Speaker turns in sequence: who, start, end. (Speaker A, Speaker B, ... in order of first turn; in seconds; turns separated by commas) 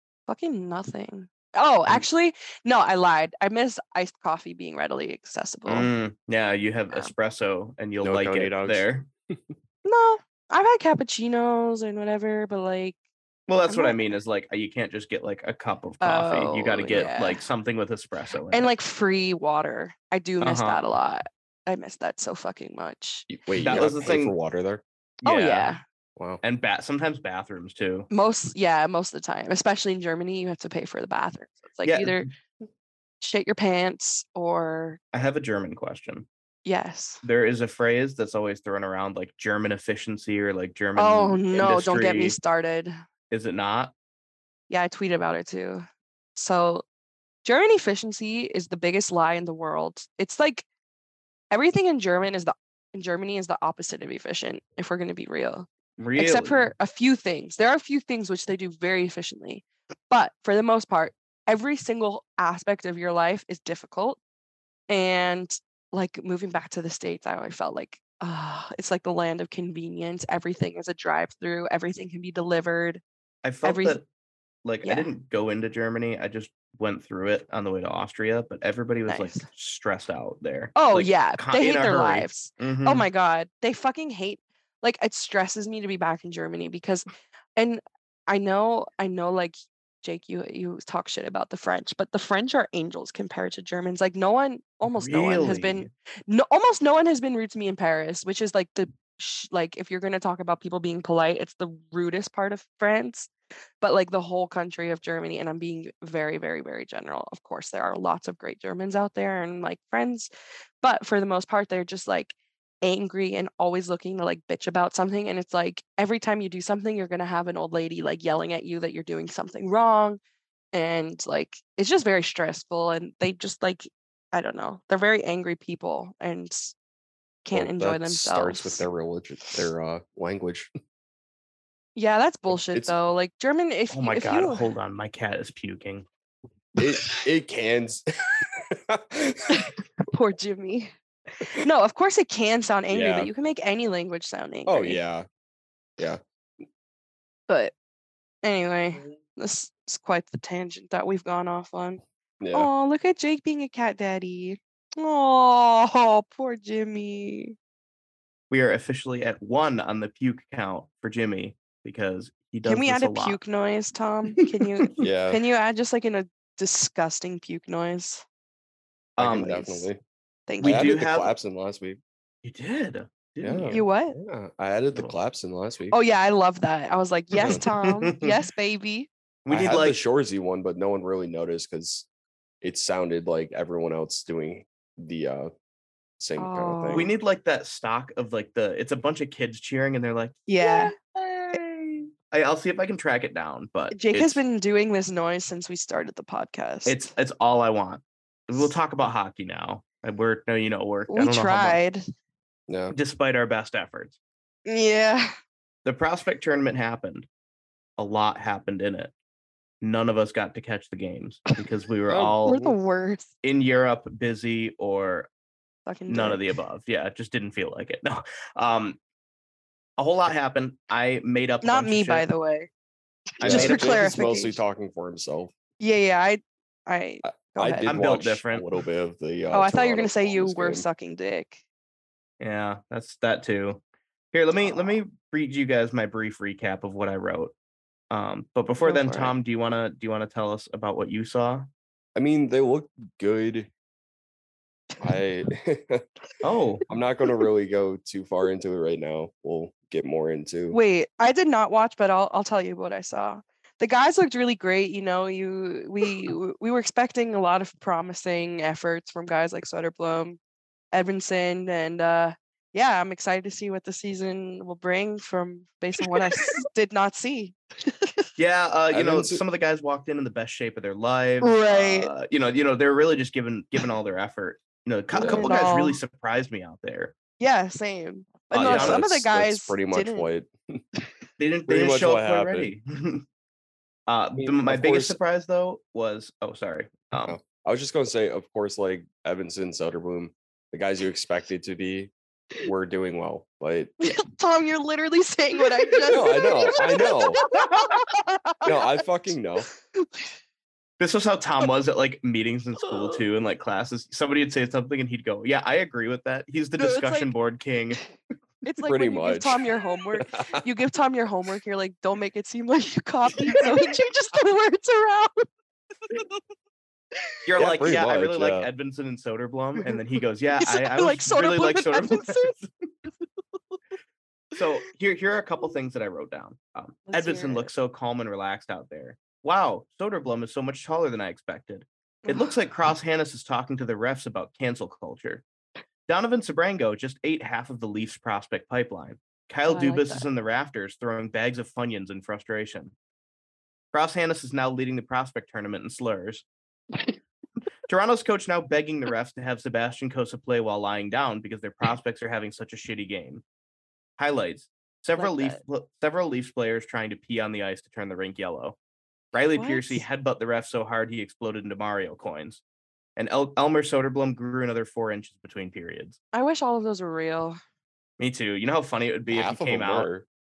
Speaker A: 0.3-5.9, Speaker B: 5.7-9.1, Speaker C: 8.0-9.6, Speaker A: 9.8-13.0, Speaker B: 13.5-18.7, Speaker A: 13.7-14.2, Speaker A: 16.0-17.4, Speaker A: 18.5-23.9, Speaker B: 20.4-20.8, Speaker C: 23.3-24.8, Speaker B: 23.6-24.4, Speaker A: 25.2-25.8, Speaker B: 25.3-25.8, Speaker C: 26.2-26.4, Speaker B: 26.4-28.1, Speaker A: 28.1-32.3, Speaker B: 31.9-32.3, Speaker A: 33.2-35.0, Speaker B: 35.1-36.3, Speaker A: 36.6-37.2, Speaker B: 37.2-42.4, Speaker A: 41.0-42.9, Speaker B: 43.3-43.9, Speaker A: 44.7-46.9, Speaker A: 47.4-50.7, Speaker A: 51.5-64.2, Speaker B: 56.0-56.6, Speaker A: 64.9-73.0, Speaker B: 73.4-74.0, Speaker A: 73.6-74.0, Speaker B: 74.7-83.1, Speaker A: 74.8-75.1, Speaker A: 79.1-79.5, Speaker A: 80.8-110.3, Speaker B: 94.9-95.9, Speaker A: 110.8-120.2, Speaker A: 120.7-126.8, Speaker A: 127.4-128.8, Speaker C: 127.5-130.7, Speaker A: 132.0-134.6, Speaker C: 132.5-132.9, Speaker B: 133.9-136.1, Speaker C: 136.8-139.5, Speaker A: 139.5-145.0, Speaker C: 142.9-143.3, Speaker C: 144.7-145.3, Speaker A: 147.5-147.7, Speaker A: 148.4-152.0, Speaker C: 152.4-152.7, Speaker A: 152.5-157.6, Speaker B: 158.5-163.4, Speaker A: 162.7-168.2, Speaker B: 164.4-164.9, Speaker C: 165.0-165.4, Speaker B: 169.2-169.7, Speaker C: 169.2-170.0, Speaker A: 169.6-169.8, Speaker A: 170.5-170.9, Speaker B: 170.6-171.3, Speaker C: 170.6-172.0, Speaker B: 172.4-173.8, Speaker C: 173.4-176.0, Speaker A: 173.7-174.2, Speaker A: 175.9-179.1, Speaker B: 177.4-178.4, Speaker B: 179.5-180.0, Speaker C: 179.5-182.1, Speaker C: 182.6-185.5, Speaker C: 186.2-187.1, Speaker A: 186.4-187.1, Speaker B: 186.9-194.4, Speaker A: 190.5-190.9, Speaker A: 193.9-197.1, Speaker B: 196.9-201.8, Speaker A: 201.1-202.0, Speaker C: 202.7-202.9, Speaker B: 202.9-204.2, Speaker A: 204.7-205.3, Speaker B: 205.8-207.3, Speaker B: 208.0-209.1, Speaker B: 209.8-212.7, Speaker C: 212.1-212.7, Speaker A: 212.4-213.3, Speaker B: 213.4-215.3, Speaker A: 215.9-216.5, Speaker B: 216.1-219.0, Speaker B: 220.0-222.3, Speaker A: 221.6-222.7, Speaker A: 223.4-224.6, Speaker C: 223.4-225.5, Speaker B: 223.4-223.9, Speaker A: 225.8-227.9, Speaker C: 227.2-230.9, Speaker B: 227.8-228.6, Speaker A: 229.5-231.6, Speaker B: 232.4-233.8, Speaker B: 234.3-237.5, Speaker A: 234.6-234.9, Speaker B: 238.1-241.7, Speaker A: 238.8-239.3, Speaker C: 242.2-243.7, Speaker C: 245.0-246.1, Speaker B: 246.4-246.8, Speaker C: 246.9-250.8, Speaker A: 250.7-260.4, Speaker A: 260.9-268.3, Speaker B: 268.4-277.1, Speaker C: 268.9-269.4, Speaker A: 271.4-272.1, Speaker C: 275.1-275.6, Speaker A: 275.2-276.0, Speaker A: 277.4-280.3, Speaker B: 278.5-279.0, Speaker C: 278.6-280.8, Speaker B: 281.4-283.2, Speaker C: 281.7-282.7, Speaker B: 284.1-287.4, Speaker C: 284.4-285.2, Speaker C: 287.3-294.1, Speaker A: 294.0-299.0, Speaker C: 296.1-297.4, Speaker B: 296.8-298.0, Speaker C: 298.6-299.7, Speaker A: 299.9-300.3, Speaker B: 301.0-308.0, Speaker A: 306.8-307.3, Speaker A: 308.6-315.5, Speaker C: 308.9-309.6, Speaker C: 310.2-310.6, Speaker B: 317.5-322.7, Speaker C: 317.6-318.7, Speaker A: 320.6-322.6, Speaker B: 324.6-335.4, Speaker A: 327.1-327.7, Speaker A: 332.3-332.5, Speaker B: 336.1-342.9, Speaker A: 339.7-340.3, Speaker B: 343.9-346.4, Speaker B: 347.9-353.4, Speaker B: 354.2-358.8, Speaker A: 355.2-355.6, Speaker B: 359.3-362.6, Speaker A: 359.5-360.0, Speaker B: 363.2-366.2, Speaker A: 366.3-367.6, Speaker B: 368.2-370.1, Speaker C: 369.3-370.3